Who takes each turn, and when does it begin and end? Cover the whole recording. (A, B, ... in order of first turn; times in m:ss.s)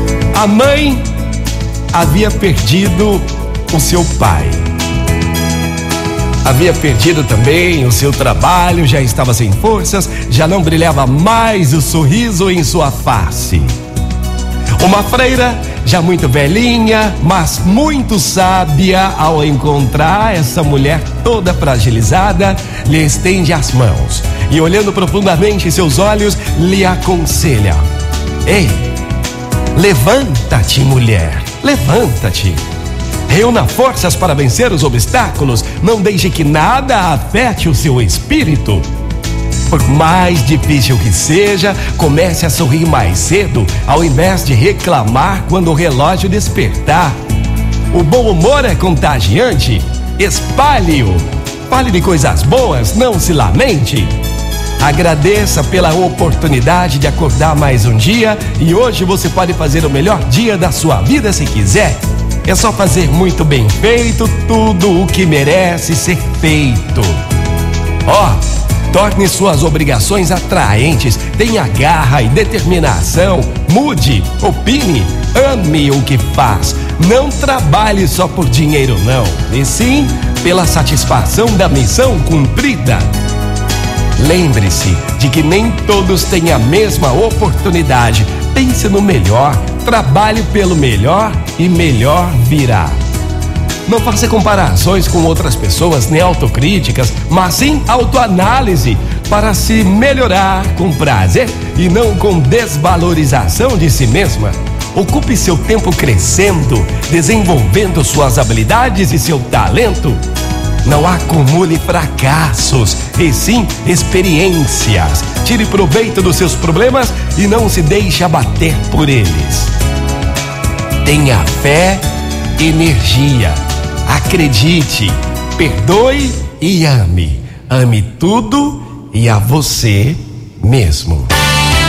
0:00.3-0:01.0 A
0:01.9-0:04.6 A
0:06.4-0:13.7 A
0:14.8-0:27.8 A
0:28.4-0:28.8 A
0:29.7-0:32.6 A
0:33.3-0:38.8 A
0:39.7-0:47.1 A
0:47.9-0:54.1 A
0:54.8-1:07.2 A
1:08.0-1:08.4 A
1:08.9-1:23.1 A
1:24.2-1:33.0 A
1:33.8-1:50.2 A
1:50.8-1:59.7 A
2:01.0-2:02.0 A
2:02.6-2:11.3 A